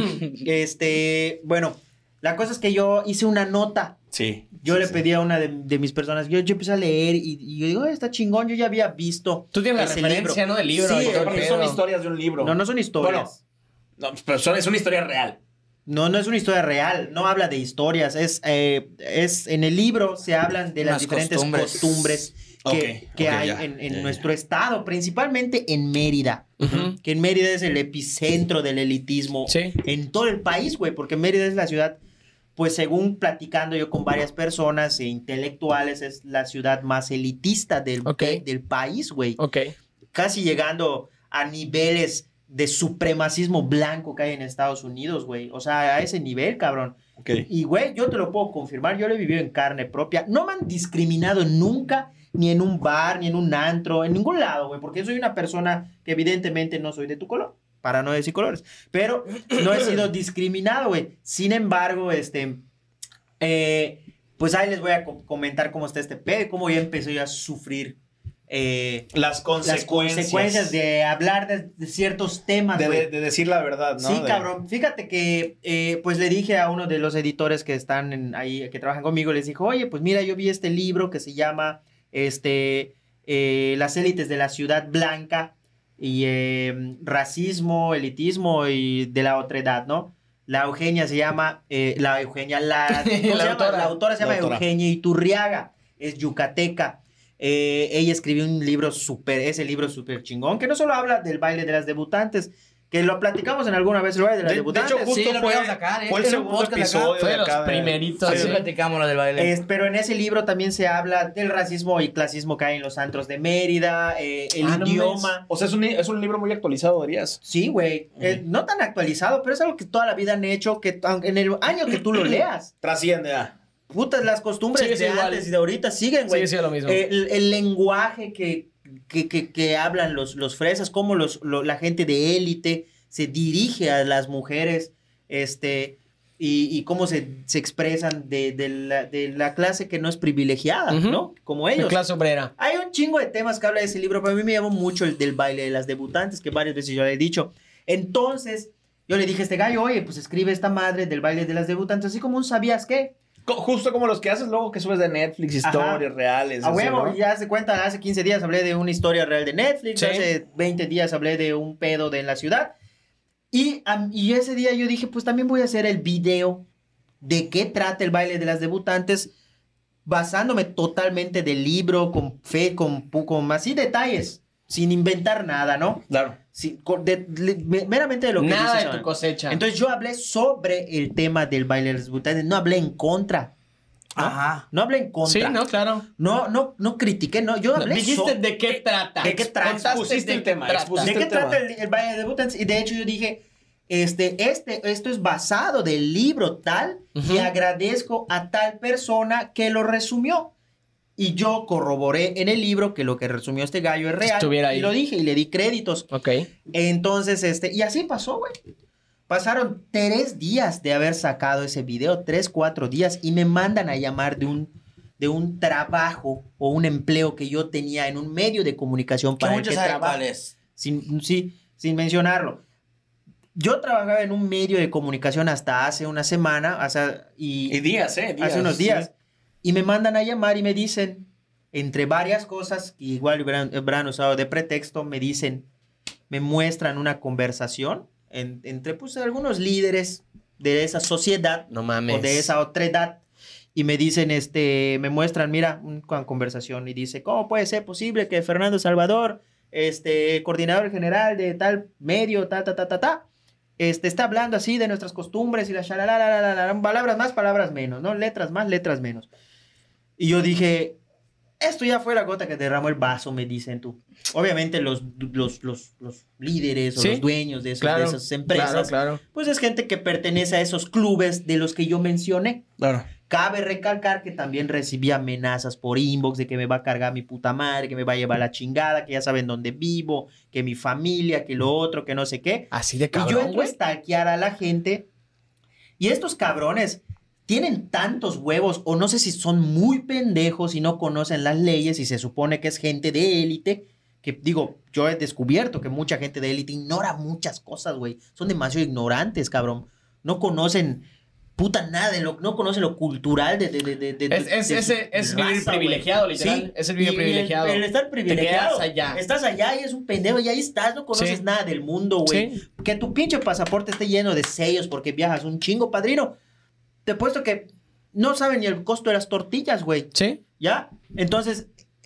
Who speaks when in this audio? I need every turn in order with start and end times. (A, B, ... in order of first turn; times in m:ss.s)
0:00.3-0:04.0 A
0:04.1-0:05.0 B
0:04.6-0:11.8 A
0:09.5-0:11.8 C
0:10.9-0:13.3 B
0:12.4-0:13.4 A
0:14.0-0:15.4 B
0:15.9-0:32.0 A
0:20.8-0:22.2 D
0:22.6-0:24.2 B
0:26.6-0:27.0 C
0:26.6-0:26.9 B
0:29.5-0:29.8 C
0:32.6-0:39.4 A
0:38.0-0:38.4 C
0:39.4-0:39.7 C
0:40.1-1:02.6 A
0:47.2-0:47.5 B
1:03.4-1:08.0 A
1:08.5-1:09.1 A
1:09.1-1:10.8 B
1:09.6-1:13.1 A
1:12.8-1:14.5 B
1:14.0-1:45.2 A
1:32.9-1:33.9 C
1:34.2-1:34.6 B
1:44.4-1:48.5 B
1:45.1-1:47.2 D
1:47.2-1:48.6 C
1:48.2-1:49.6 D
1:49.4-1:55.4 A
1:54.6-1:55.3 C
1:55.4-1:57.4 B
1:57.4-2:02.7 A
2:02.8-2:03.5 B
2:03.9-2:22.0 A
2:04.8-2:05.5 C
2:06.3-2:07.0 C
2:20.9-2:21.2 C
2:21.8-2:22.5 C
2:22.6-2:33.2 A
2:33.5-2:37.2 B
2:35.6-2:36.1 A
2:36.6-2:42.7 A
2:40.0-2:40.3 C
2:43.5-2:46.6 A
2:47.2-2:49.3 A
2:50.1-3:03.5 A
2:56.1-2:56.4 B
2:58.4-2:59.6 C
3:04.2-3:04.7 D
3:04.2-3:05.6 A
3:05.3-3:06.0 C
3:06.2-3:08.4 A
3:07.8-3:11.1 C
3:09.2-3:10.1 A
3:09.2-3:11.6 B
3:11.0-3:20.5 A
3:17.2-3:17.5 C
3:21.2-3:26.1 A
3:24.2-3:24.9 C
3:26.1-3:26.5 C
3:26.7-3:28.5 A
3:29.3-3:40.2 A
3:39.4-3:40.5 D
3:40.8-3:42.6 A
3:43.6-3:47.8 A
3:47.7-3:49.1 B
3:48.4-3:49.1 A
3:49.6-3:55.7 A
3:56.3-4:03.2 A
4:01.7-4:02.5 C
4:03.8-4:13.2 A
4:13.8-4:19.3 A
4:20.2-4:21.0 A
4:21.6-4:32.7 A
4:27.0-4:27.2 C
4:27.8-4:29.2 C
4:32.8-4:33.1 B
4:33.2-4:45.1 A
4:42.7-4:43.8 C
4:46.0-5:01.0 A
5:01.6-5:16.4 A
5:04.3-5:09.2 C
5:11.1-5:11.4 C
5:12.3-5:12.6 C
5:17.0-5:21.7 A
5:20.1-5:20.4 C